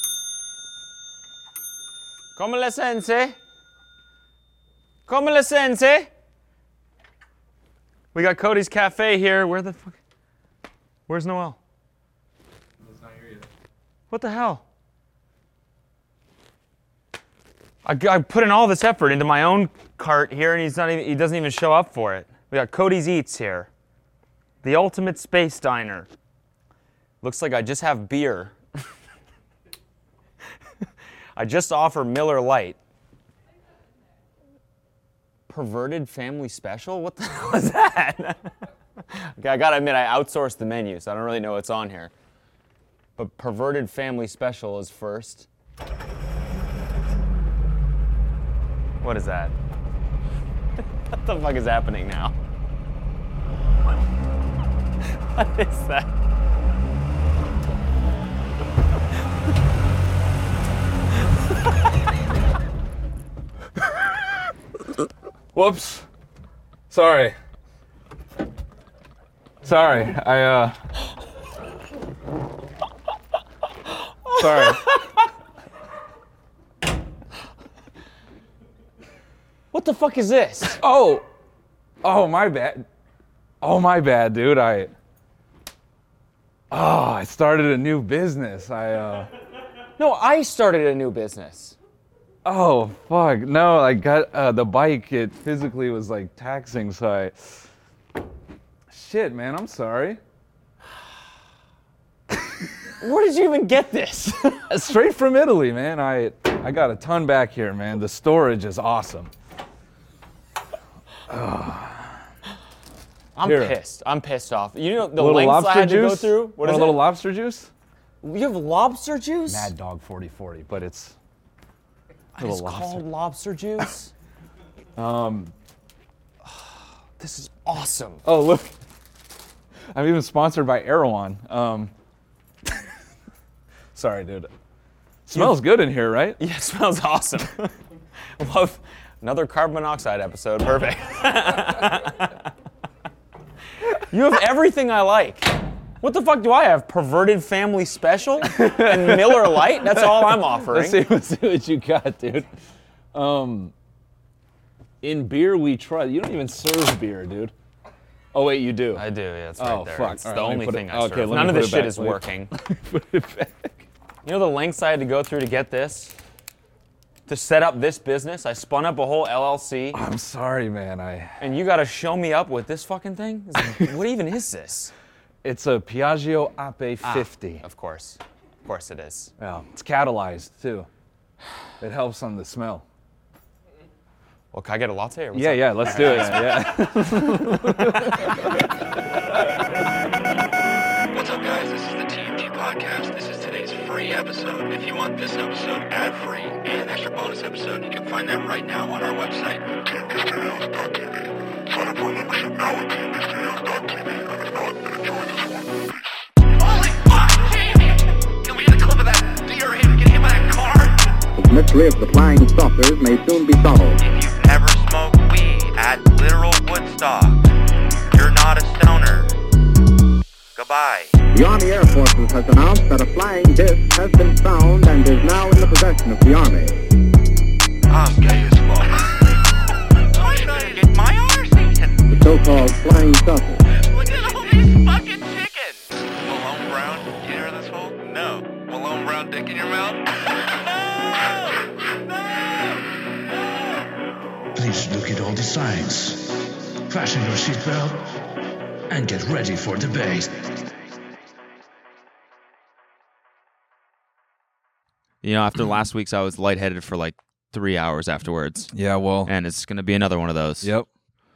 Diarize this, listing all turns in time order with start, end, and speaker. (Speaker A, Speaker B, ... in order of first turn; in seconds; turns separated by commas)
Speaker A: 2.4-3.4, Speaker A: 5.1-6.1, Speaker A: 8.1-10.0, Speaker A: 11.1-11.6, Speaker A: 14.1-14.6, Speaker A: 17.8-23.7, Speaker A: 24.6-26.1, Speaker A: 27.2-28.6, Speaker A: 31.4-32.8, Speaker A: 35.5-38.5, Speaker A: 39.1-42.1, Speaker A: 43.2-45.5, Speaker A: 49.0-49.5, Speaker A: 51.1-52.3, Speaker A: 55.3-56.1, Speaker B: 65.5-66.1, Speaker B: 66.9-67.3, Speaker B: 69.6-70.8, Speaker B: 74.3-75.0, Speaker A: 74.5-75.0, Speaker A: 79.7-80.8, Speaker B: 80.8-81.2, Speaker B: 82.0-82.8, Speaker B: 83.6-84.9, Speaker B: 86.7-89.3, Speaker A: 90.0-91.8, Speaker B: 92.4-97.6, Speaker B: 98.9-100.2, Speaker A: 103.0-104.7, Speaker B: 104.7-109.3, Speaker B: 111.3-112.2, Speaker A: 113.3-117.0, Speaker B: 113.4-113.8, Speaker B: 115.2-117.7, Speaker A: 118.2-119.7, Speaker B: 119.5-121.2, Speaker A: 122.3-124.1, Speaker B: 122.4-123.0, Speaker B: 125.0-125.5, Speaker A: 127.2-128.2, Speaker B: 128.2-128.7, Speaker B: 129.9-131.9, Speaker B: 133.9-134.5, Speaker B: 135.2-136.4, Speaker A: 135.3-135.6, Speaker A: 136.4-137.7, Speaker A: 138.4-142.5, Speaker A: 144.1-151.1, Speaker B: 148.4-152.5, Speaker B: 153.1-153.7, Speaker B: 155.0-157.5, Speaker B: 158.3-159.0, Speaker A: 158.9-162.5, Speaker B: 159.6-163.8, Speaker A: 164.2-166.1, Speaker A: 167.3-170.0, Speaker B: 169.9-171.4, Speaker A: 171.4-174.9, Speaker B: 173.6-173.9, Speaker B: 175.4-177.6, Speaker A: 177.0-179.3, Speaker B: 179.4-180.9, Speaker B: 181.8-182.8, Speaker A: 184.5-187.4, Speaker B: 185.3-188.6, Speaker C: 191.1-199.7, Speaker C: 206.5-211.1, Speaker D: 211.4-214.0, Speaker C: 214.0-217.4, Speaker C: 218.1-219.3, Speaker C: 220.6-221.1, Speaker D: 221.3-226.8, Speaker C: 227.9-229.2, Speaker C: 230.1-232.0, Speaker D: 232.1-233.6, Speaker C: 233.7-240.0, Speaker E: 244.5-248.1, Speaker E: 248.9-250.5, Speaker F: 255.2-258.7, Speaker B: 258.7-259.3, Speaker F: 259.2-260.7, Speaker B: 260.6-260.9